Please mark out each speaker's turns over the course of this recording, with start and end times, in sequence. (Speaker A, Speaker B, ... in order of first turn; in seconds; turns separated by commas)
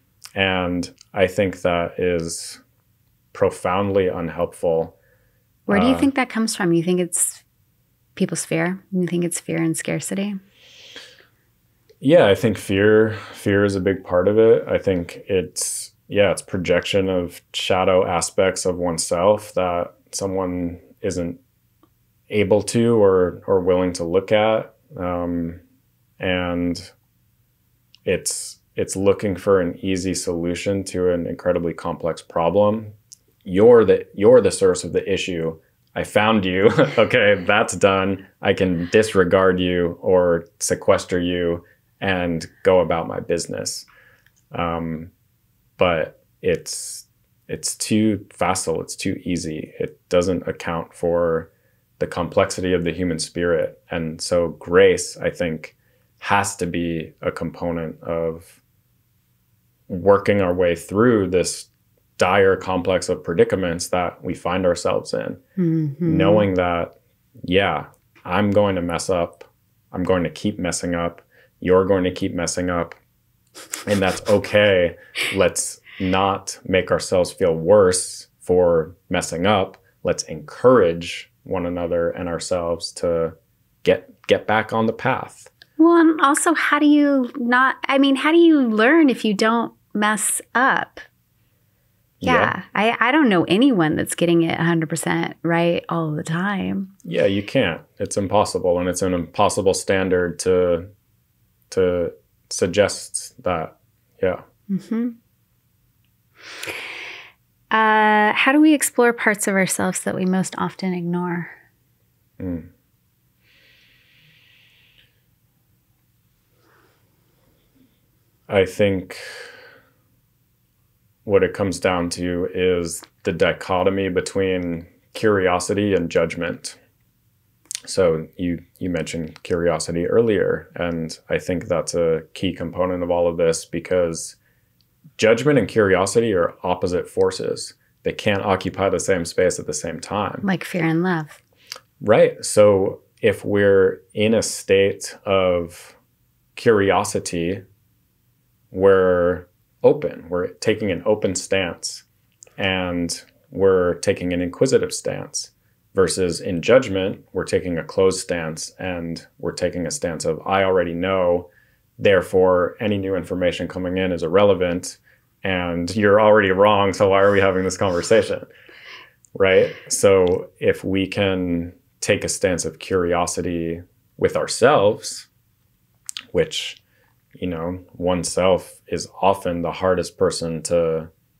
Speaker A: 0.4-2.6, Speaker A: 3.3-5.0, Speaker B: 5.7-7.4, Speaker A: 5.7-6.1, Speaker B: 8.2-10.4, Speaker A: 12.0-21.4, Speaker A: 22.3-25.6, Speaker A: 26.2-26.9, Speaker A: 28.1-43.9, Speaker A: 44.5-45.1, Speaker A: 45.8-58.6, Speaker A: 59.9-65.4, Speaker B: 65.6-66.5, Speaker A: 66.0-73.0, Speaker A: 73.8-85.5, Speaker B: 85.8-91.0, Speaker A: 92.2-92.5, Speaker B: 92.2-96.9, Speaker A: 97.0-100.9, Speaker A: 101.7-104.4, Speaker B: 104.7-105.2, Speaker B: 107.7-111.5, Speaker A: 112.4-112.7, Speaker A: 118.5-119.5, Speaker A: 121.2-126.8, Speaker A: 127.8-134.4, Speaker A: 135.2-140.5, Speaker B: 140.4-141.4, Speaker A: 142.0-146.0, Speaker A: 146.6-147.6, Speaker A: 148.7-152.1, Speaker A: 152.6-168.5, Speaker A: 169.3-175.3, Speaker A: 176.3-176.8, Speaker A: 177.3-181.1